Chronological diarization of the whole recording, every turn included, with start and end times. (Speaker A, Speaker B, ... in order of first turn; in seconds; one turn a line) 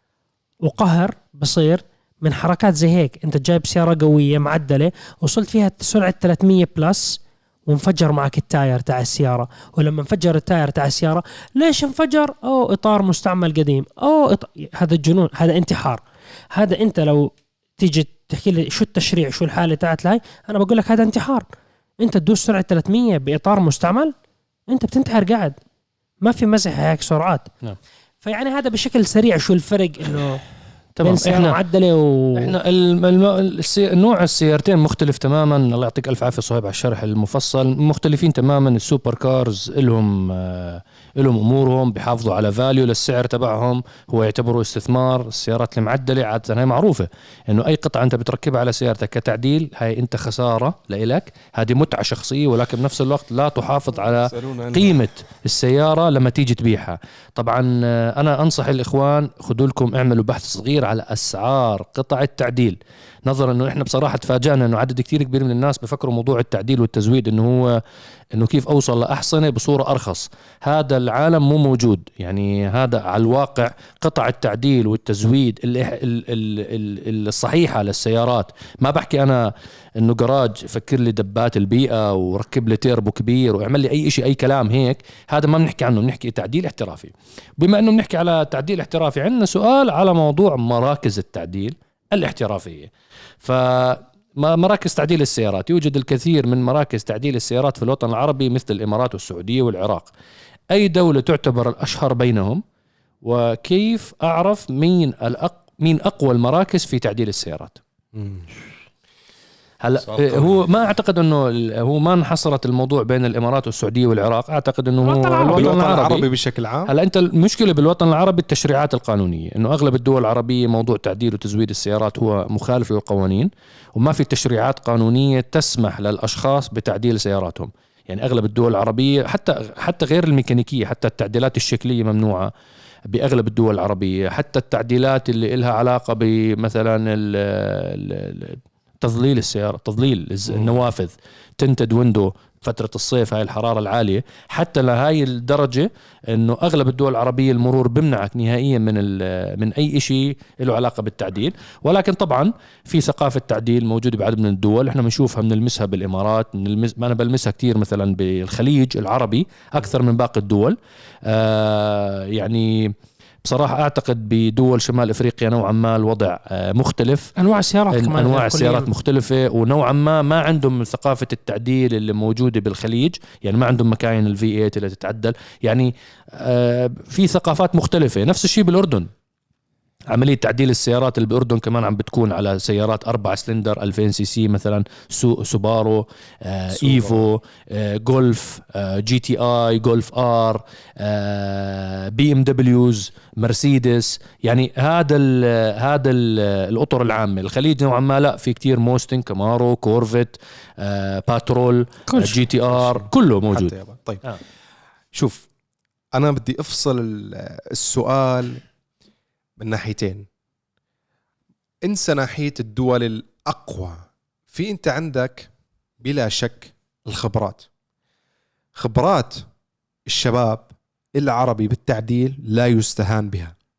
Speaker A: 0.6-21.5
Speaker A: 22.0-24.1
Speaker A: 24.7-25.6
Speaker A: 26.2-27.5
Speaker A: 28.2-30.4
Speaker B: 30.9-31.6
Speaker A: 31.0-32.5
Speaker B: 32.3-67.8
Speaker C: 54.0-55.0
Speaker B: 68.3-92.9
Speaker B: 93.4-100.1
Speaker B: 100.7-102.6
Speaker B: 103.2-107.8
Speaker C: 108.1-108.5
Speaker B: 109.8-116.2
Speaker C: 110.0-110.6
Speaker A: 115.0-115.7
Speaker C: 115.5-116.9
Speaker B: 116.9-132.5
Speaker B: 133.1-167.3
Speaker C: 140.5-140.7
Speaker A: 167.4-168.9
Speaker B: 167.9-179.1
Speaker B: 180.1-203.7
Speaker C: 186.7-187.3
Speaker C: 202.7-204.2
Speaker C: 205.1-205.5
Speaker C: 206.1-208.6
Speaker C: 209.6-210.2
Speaker C: 211.8-214.0
Speaker C: 214.5-215.5
Speaker C: 216.0-217.7
Speaker C: 218.8-219.4
Speaker C: 220.1-223.5